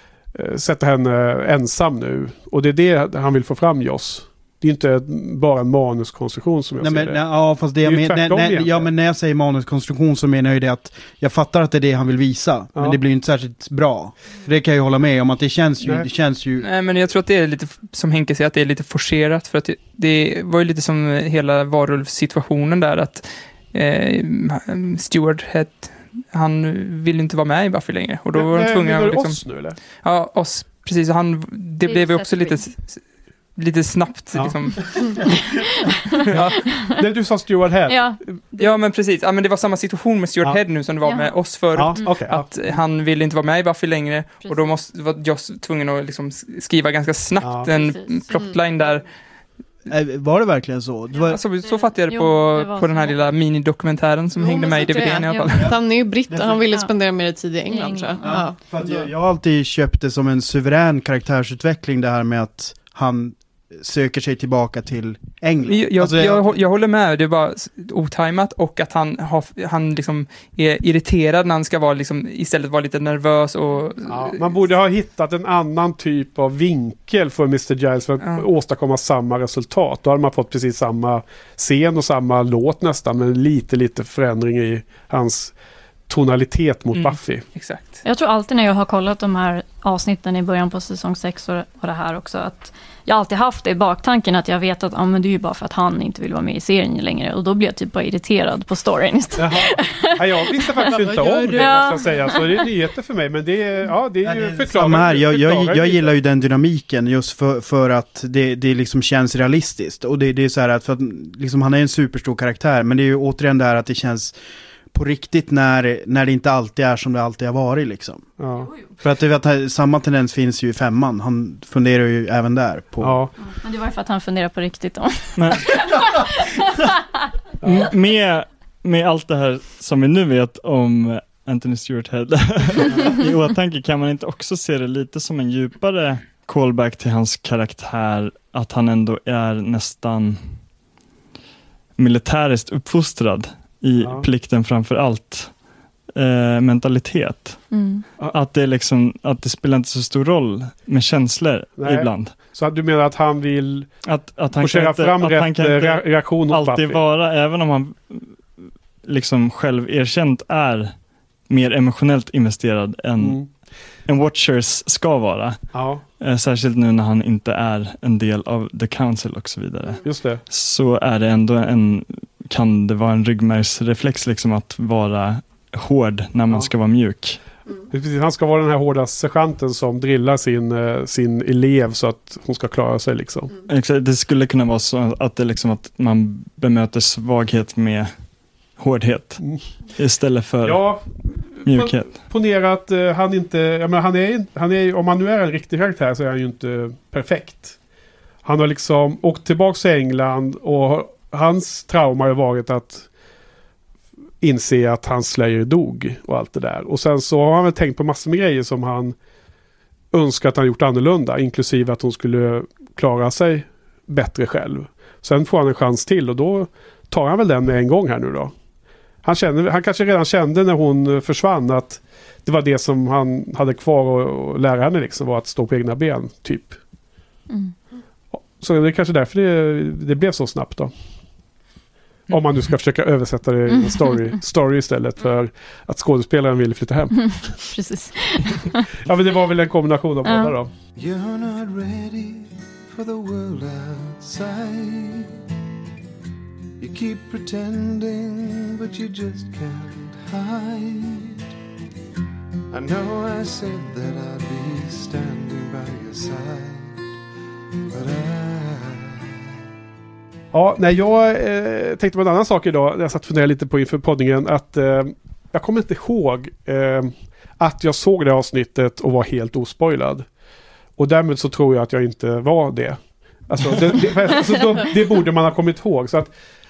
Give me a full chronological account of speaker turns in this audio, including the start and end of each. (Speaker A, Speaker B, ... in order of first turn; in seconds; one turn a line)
Speaker A: 0.3-8.9
Speaker B: 6.8-16.7
Speaker A: 12.8-13.0
Speaker A: 15.8-16.1
Speaker C: 16.6-35.2
Speaker A: 28.4-29.8
Speaker D: 31.8-32.7
Speaker D: 35.5-37.0
Speaker C: 36.3-36.7
Speaker A: 37.0-38.0
Speaker D: 37.9-38.7
Speaker C: 38.6-49.0
Speaker D: 41.0-42.2
Speaker A: 41.7-42.5
Speaker D: 44.4-44.7
Speaker A: 47.4-47.7
Speaker D: 47.7-49.0
Speaker B: 49.9-51.4
Speaker C: 51.3-55.7
Speaker D: 51.6-53.3
Speaker E: 54.4-58.6
Speaker D: 54.7-55.7
Speaker B: 56.3-56.6
Speaker D: 57.7-58.5
Speaker B: 58.2-66.5
Speaker C: 65.7-74.6
Speaker A: 74.1-85.5
Speaker C: 78.2-78.5
Speaker A: 86.1-87.4
Speaker C: 86.9-88.0
Speaker D: 88.0-102.6
Speaker A: 99.4-106.1
Speaker E: 100.9-101.9
Speaker B: 104.2-114.3
Speaker B: 114.9-118.3
Speaker A: 118.4-118.7
Speaker B: 119.0-123.2
Speaker A: 123.0-123.3
Speaker D: 123.5-126.9
Speaker F: 125.4-125.8
Speaker A: 127.6-127.9
Speaker F: 127.6-140.4
Speaker F: 142.0-145.5
Speaker A: 144.0-144.3
Speaker F: 146.2-147.7
Speaker D: 147.7-148.1
Speaker F: 148.2-152.3
Speaker A: 151.8-153.9
Speaker F: 154.1-158.6
Speaker A: 154.6-157.0
Speaker F: 159.1-160.9
Speaker F: 161.5-163.5
Speaker A: 163.2-163.5
Speaker F: 164.1-165.6
Speaker A: 165.7-166.0
Speaker F: 166.2-177.4
Speaker A: 170.0-170.4
Speaker A: 177.9-183.5
Speaker F: 183.7-188.1
Speaker F: 188.8-189.4
Speaker F: 190.0-190.9
Speaker A: 190.6-197.8
Speaker F: 191.7-192.2
Speaker A: 198.4-203.1
Speaker A: 204.4-209.2
Speaker A: 210.1-218.5
Speaker A: 219.2-226.8
Speaker A: 228.3-230.9
Speaker A: 232.3-237.3
Speaker D: 233.7-234.3
Speaker D: 237.1-238.9
Speaker A: 239.0-240.7
Speaker D: 240.2-240.6
Speaker G: 241.0-245.3
Speaker G: 246.8-251.4
Speaker G: 252.7-257.0
Speaker G: 257.9-259.2
Speaker A: 260.5-270.3
Speaker A: 271.0-276.3